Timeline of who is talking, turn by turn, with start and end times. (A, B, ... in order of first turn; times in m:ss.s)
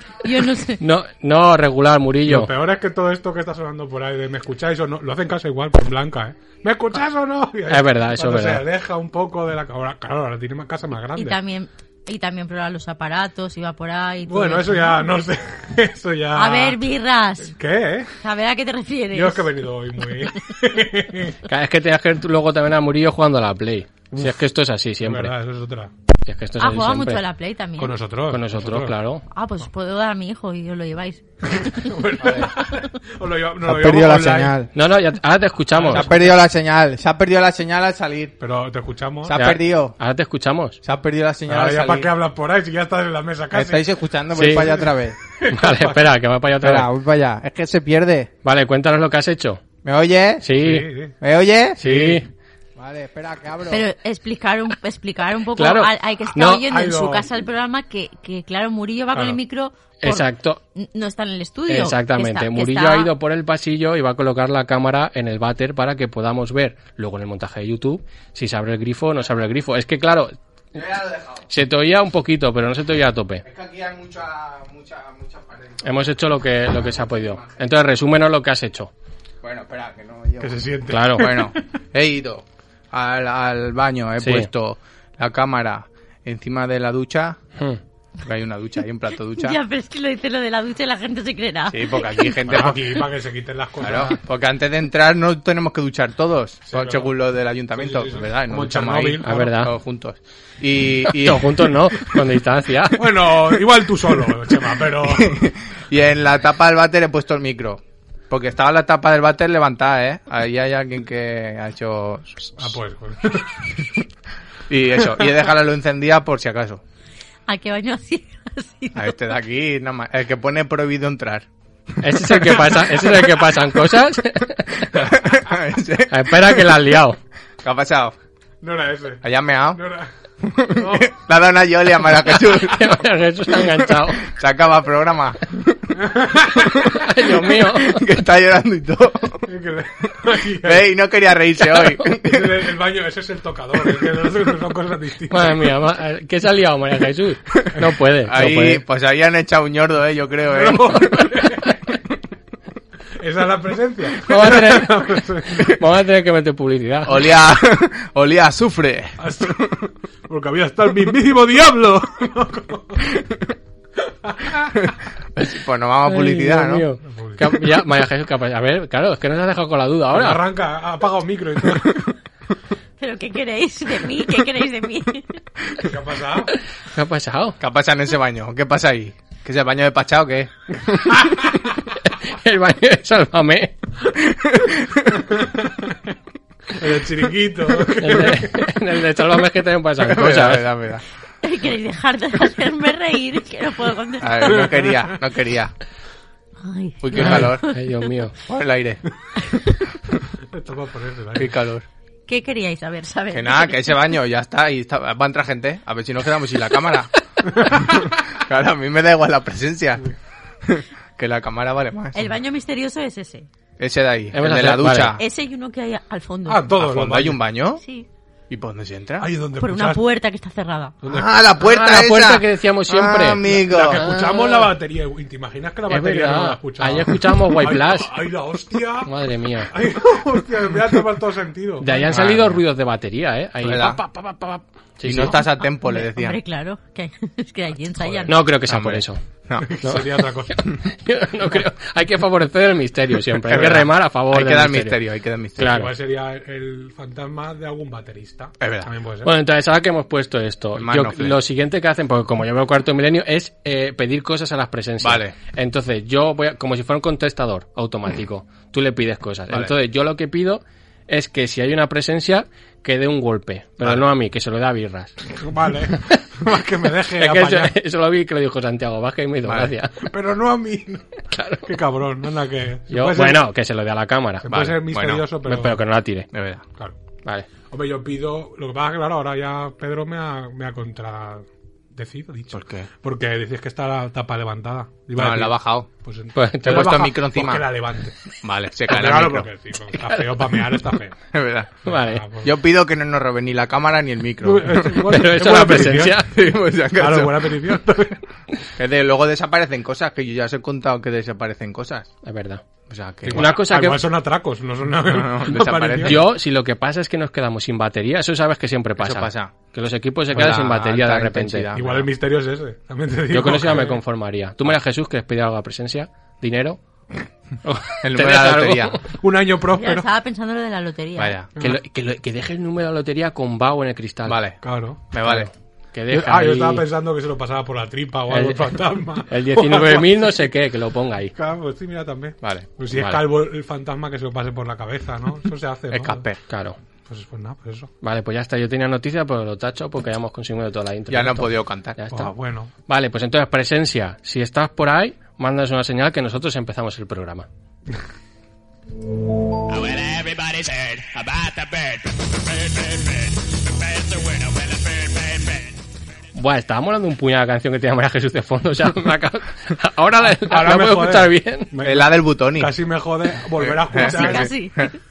0:00.2-0:00.8 A
0:00.8-0:02.5 B
0:02.2-0:11.4 C
0:07.7-0:08.6 B
0:11.1-0:15.1 A
0:14.3-0:16.8 C
0:16.3-0:17.5 A
0:17.4-0:18.1 C
0:18.2-0:19.5 A
0:19.1-0:21.4 C
0:21.4-0:25.3 B
0:24.1-0:24.4 C
0:25.0-0:25.9 C
0:26.2-0:27.2 B
0:26.6-0:28.0 A
0:27.8-0:28.9 C
0:28.3-0:29.2 B
0:29.3-0:31.2 A
0:31.5-0:34.6 C
0:32.2-0:32.5 D
0:33.6-0:34.7 D
0:34.7-0:36.3 B
0:35.7-0:36.1 C
0:35.9-0:38.4 D
0:38.4-0:39.4 C
0:39.2-0:40.0 D
0:39.3-0:40.8 B
0:40.8-0:42.1 D
0:41.5-0:43.9 C
0:43.5-0:45.2 D
0:44.3-0:44.8 B
0:45.3-0:46.0 C
0:45.5-0:46.9 B
0:46.6-0:48.3 D
0:48.4-0:49.6 B
0:49.8-0:50.5 D
0:50.4-0:50.9 B
0:50.5-0:51.1 C
0:51.2-0:52.1 D
0:51.8-0:52.3 B
0:51.8-0:52.2 C
0:52.8-0:53.9 D
0:53.7-1:03.1 A
0:55.6-0:56.7 B
0:56.4-0:57.2 C
0:59.1-0:59.4 C
1:00.0-1:00.6 B
1:01.7-1:10.3 B
1:10.7-1:11.5 D
1:11.5-1:13.4 B
1:13.4-1:16.1 D
1:15.8-1:18.9 B
1:16.6-1:17.7 D
1:19.4-1:27.4 D
1:20.4-1:21.6 C
1:20.9-1:21.3 B
1:24.2-1:24.5 B
1:28.2-1:29.6 D
1:29.3-1:32.4 A
1:31.7-1:32.9 D
1:32.4-1:34.2 C
1:33.8-1:41.6 D
1:36.7-1:37.1 C
1:37.7-1:39.5 C
1:39.2-1:39.7 B
1:41.1-1:43.0 B
1:43.0-1:45.5 C
1:45.0-1:52.7 D
1:52.6-1:54.0 C
1:54.7-1:56.8 D
1:57.5-1:59.1 A
1:58.9-2:01.5 D
2:02.0-2:04.9 B
2:03.0-2:03.4 D
2:04.9-2:06.8 D
2:06.1-2:07.2 B
2:07.6-2:08.2 D
2:08.6-2:11.1 C
2:09.2-2:09.8 D
2:10.5-2:13.0 D
2:12.3-2:14.2 B
2:13.6-2:15.8 D
2:16.0-2:16.9 C
2:16.6-2:19.4 D
2:16.8-2:18.0 B
2:19.4-2:20.9 C
2:20.6-2:22.7 D
2:22.2-2:25.7 C
2:25.3-2:28.8 B
2:28.2-2:31.2 D
2:30.5-2:32.0 C
2:33.2-2:35.8 C
2:34.2-2:35.0 B
2:35.6-2:37.2 B
2:37.0-2:39.7 D
2:39.2-2:43.2 C
2:44.2-2:44.8 C
2:45.3-2:46.8 D
2:46.0-2:50.4 B
2:47.0-2:47.6 C
2:50.1-2:52.1 C
2:53.0-2:55.4 A
2:55.8-2:56.5 C
2:56.9-2:57.6 B
2:57.6-3:00.5 D
3:02.2-3:03.7 B
3:04.4-3:05.2 D
3:05.3-3:06.0 C
3:06.7-3:08.6 C
3:08.0-3:10.7 B
3:10.0-3:11.0 D
3:11.4-3:14.8 A
3:14.2-3:15.7 D
3:16.6-3:18.0 A
3:17.0-3:17.7 D
3:17.2-3:18.3 B
3:18.5-3:19.0 D
3:20.5-3:21.5 C
3:21.3-3:21.8 D
3:22.3-3:24.0 A
3:23.3-3:27.1 D
3:27.6-3:28.0 C
3:28.3-3:30.1 D
3:30.6-3:32.3 D
3:32.1-3:33.5 A
3:33.8-3:35.2 D
3:34.3-3:35.2 B
3:35.2-3:36.7 A
3:36.4-3:37.4 C
3:36.8-3:37.8 D
3:37.8-3:38.1 A
3:38.5-3:39.3 D
3:39.2-3:40.0 C
3:39.6-3:40.9 A
3:41.0-3:41.3 C
3:41.0-3:44.1 D
3:41.6-3:44.7 B
3:43.5-3:49.1 C
3:45.9-3:48.1 B
3:49.0-3:49.7 B
3:49.7-3:52.4 C
3:51.8-3:55.4 B
3:52.1-3:52.5 D
3:53.6-3:54.0 D
3:55.0-3:56.4 D
3:55.6-3:58.3 A
3:58.3-3:59.2 B
3:58.6-3:59.8 D
3:59.6-4:00.7 C
3:59.8-4:05.0 B
4:03.4-4:05.8 D
4:05.6-4:05.9 B
4:05.6-4:09.3 C
4:08.6-4:08.9 D
4:09.2-4:25.2 B
4:10.7-4:11.4 D
4:15.0-4:15.4 D
4:25.3-4:27.7 C
4:27.2-4:29.9 B
4:29.4-4:29.7 D
4:30.0-4:31.0 C
4:31.3-4:31.7 B
4:31.6-4:33.5 C
4:32.9-4:34.5 B
4:34.4-4:35.8 C
4:34.5-4:35.3 D
4:35.4-4:36.3 B
4:36.3-4:36.6 D
4:37.6-4:48.2 C
4:42.5-4:42.9 D
4:45.1-4:45.9 D
4:46.3-4:47.0 B
4:46.6-4:47.7 D
4:48.4-4:49.5 D
4:48.9-4:51.2 C
4:50.0-4:50.5 B
4:51.3-4:51.9 D
4:51.8-4:52.2 B
4:51.9-4:52.5 C
4:52.4-4:55.1 D
4:54.4-4:56.3 C
4:55.1-4:56.3 B
4:56.1-4:57.6 D
4:57.0-4:58.2 C
4:58.8-5:02.1 D
5:02.2-5:02.6 B
5:02.9-5:03.5 D
5:03.2-5:06.3 C
5:03.3-5:04.0 B
5:05.0-5:06.3 D
5:06.0-5:11.7 B
5:09.0-5:09.5 D
5:10.3-5:12.1 D
5:11.7-5:14.0 C
5:13.3-5:16.8 B
5:17.6-5:19.0 B
5:18.0-5:19.0 D
5:19.1-5:20.0 C
5:19.8-5:21.4 A
5:21.2-5:21.5 D
5:21.6-5:24.4 B
5:24.2-5:25.5 D
5:24.6-5:25.2 C
5:25.2-5:26.8 B
5:26.1-5:30.4 C
5:28.3-5:28.7 B
5:29.3-5:31.3 B
5:31.3-5:36.2 C
5:32.4-5:32.7 D
5:32.9-5:33.2 B
5:35.9-5:36.4 D
5:36.5-5:36.8 B
5:37.0-5:37.9 C
5:38.0-5:42.3 B
5:41.1-5:42.0 D
5:42.1-5:42.7 C
5:42.9-5:47.5 B
5:49.7-5:55.7 E
5:56.3-6:01.7 B
6:00.4-6:04.6 C
6:01.8-6:02.8 D
6:03.6-6:04.9 D
6:03.9-6:04.9 A